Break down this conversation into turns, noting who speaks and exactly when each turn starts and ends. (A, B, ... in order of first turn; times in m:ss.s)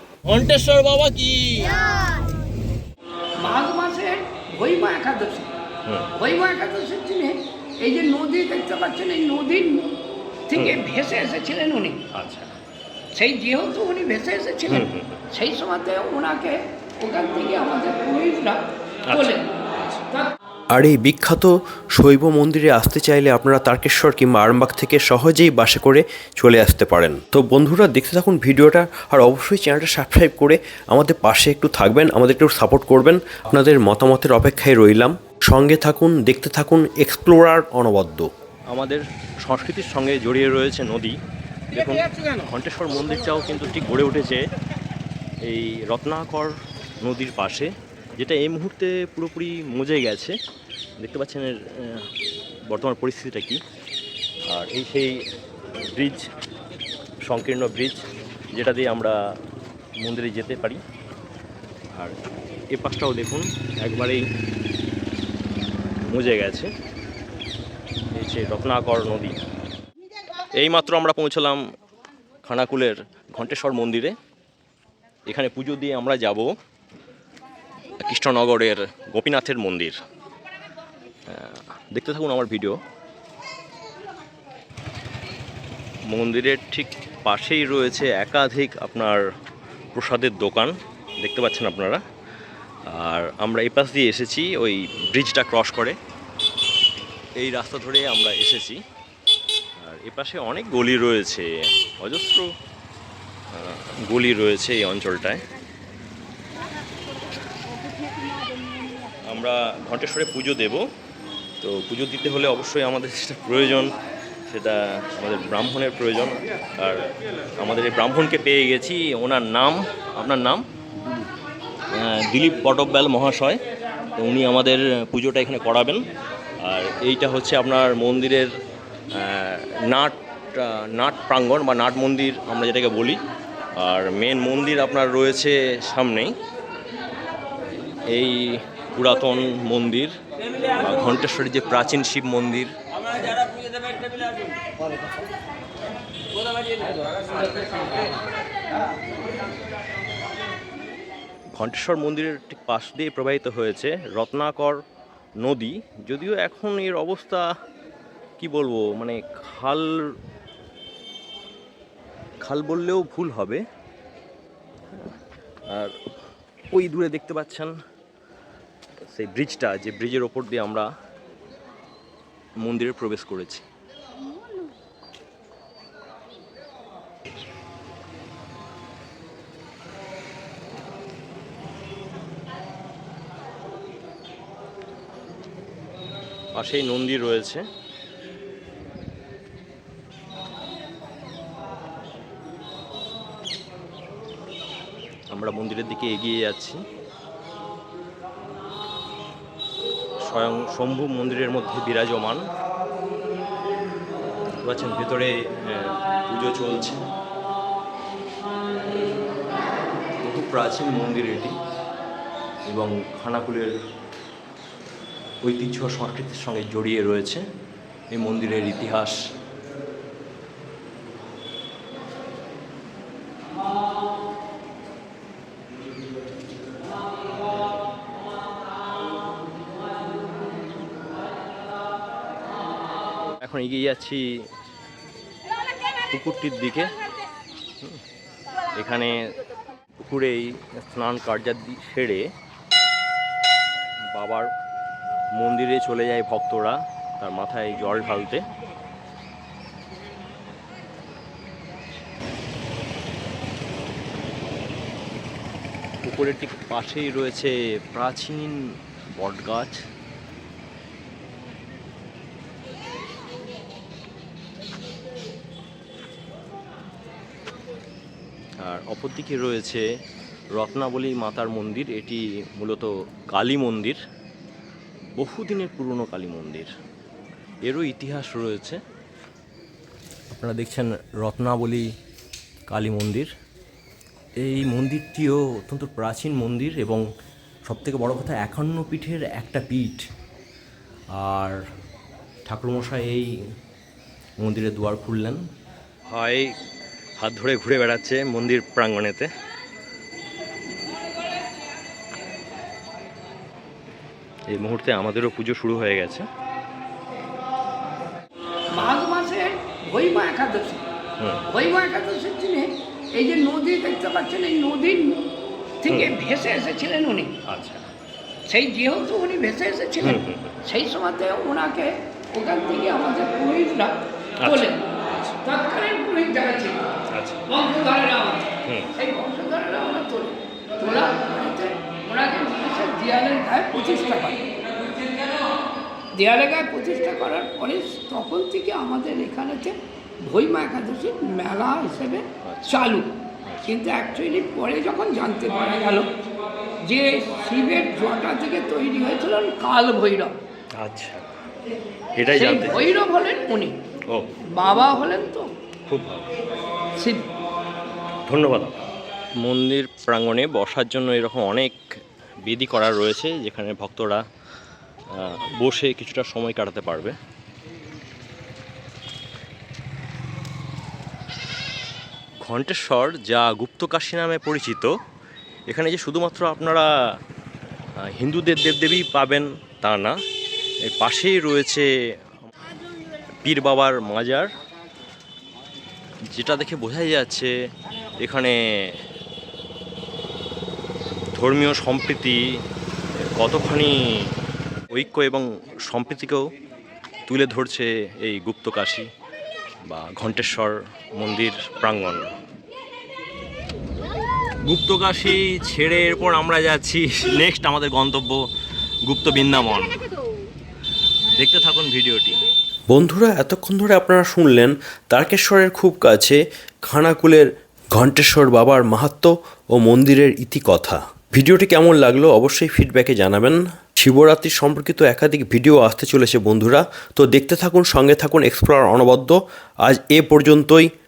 0:00.3-0:01.8 A
0:03.4-0:05.5 B
0:05.9-0:06.1 A
0:06.2-0:09.9 B
0:10.5-0:12.0 B
0:10.5-0:10.8 A
0:12.1-0:12.5 A
0:13.2-0:19.5 B
0:14.7-0:15.2 A
0:19.1-0:20.0 A
0:20.7-0:38.3 C
0:38.7-0:41.2 A
0:41.7-0:44.5 A
0:45.4-0:50.4 A
0:51.0-0:52.1 A
0:52.7-0:53.6 A
0:54.5-0:55.2 A
0:55.8-0:56.3 A
0:57.3-0:59.2 A
1:00.0-1:00.8 A
1:02.7-1:04.3 A
1:06.1-1:06.7 A
1:08.1-1:09.4 A
1:10.6-1:11.6 A
1:12.4-1:14.2 A
1:15.3-1:16.5 A
1:18.0-1:20.0 A
1:21.3-1:22.8 A
1:26.1-1:29.2 A
1:29.9-1:32.0 A
1:32.9-1:36.0 A
1:37.4-1:38.8 A
1:39.8-1:42.5 A
1:43.5-1:45.4 A
1:49.2-1:50.8 A
1:51.6-1:53.9 A
1:54.5-1:57.1 A
1:57.6-2:01.3 A
2:01.9-2:03.6 A
2:04.2-2:06.0 A
2:06.6-2:08.5 A
2:09.1-2:13.2 A
2:13.8-2:16.3 A
2:18.1-2:20.2 A
2:20.8-2:22.7 A
2:31.5-2:34.8 A
2:35.4-2:37.5 A
2:38.4-2:40.1 A
2:42.4-2:43.6 A
2:45.7-2:46.0 A
2:46.7-2:47.7 A
2:49.0-2:50.9 A
2:52.6-2:53.6 A
3:06.6-3:07.6 A
3:15.3-3:16.8 A
3:20.2-3:22.4 A
3:24.6-3:27.0 A
3:30.2-3:31.6 A
3:32.6-3:33.7 A
3:35.4-3:37.4 A
3:38.1-3:39.2 A
3:53.4-3:54.2 A
3:56.1-3:56.9 A
3:58.8-3:59.1 A
4:00.0-4:02.3 A
4:04.1-4:04.5 A
4:05.3-4:08.5 A
4:16.0-4:18.6 A
4:19.1-4:19.8 A
4:28.6-4:29.8 A
4:30.5-4:34.0 A
4:35.2-4:36.7 A
4:37.6-4:38.8 A
4:40.3-4:41.9 A
4:42.7-4:43.3 A
4:44.4-4:47.0 A
4:47.7-4:50.0 A
4:51.2-4:51.6 A
4:52.5-4:53.3 A
4:54.4-4:55.4 A
4:56.1-4:56.5 A
4:57.2-4:59.3 A
5:04.5-5:06.3 A
5:08.7-5:10.8 B
5:11.2-5:11.5 A
5:11.5-5:15.3 B
5:15.8-5:17.3 B
5:15.9-5:16.1 A
5:17.4-5:17.9 A
5:18.5-5:24.8 B
5:20.0-5:20.6 A
5:24.4-5:25.4 A
5:25.4-5:26.9 B
5:27.1-5:27.5 A
5:27.5-5:34.5 B
5:28.6-5:28.9 A
5:36.1-5:43.1 B
5:42.4-5:43.7 A
5:43.7-5:46.1 B
5:46.8-5:50.3 B
5:50.8-5:51.3 A
5:52.2-5:52.8 A
5:52.3-5:53.8 B
5:54.1-5:54.3 A
5:54.5-5:55.5 B
5:55.9-5:56.3 A
5:57.0-5:57.2 B
5:58.3-5:58.8 A
5:59.4-6:01.8 A
6:02.4-6:04.2 A
6:05.1-6:07.2 A
6:12.4-6:14.9 A
6:15.7-6:16.9 A
6:18.0-6:20.2 A
6:20.8-6:21.9 A
6:23.4-6:24.5 A
6:26.3-6:27.5 A
6:28.2-6:29.0 A
6:31.4-6:32.4 A
6:33.3-6:34.3 A
6:34.9-6:36.5 A
6:37.3-6:39.1 A
6:39.9-6:42.3 A
6:44.7-6:48.4 A
6:49.1-6:50.0 A
6:51.4-6:52.4 A
6:52.9-7:10.9 C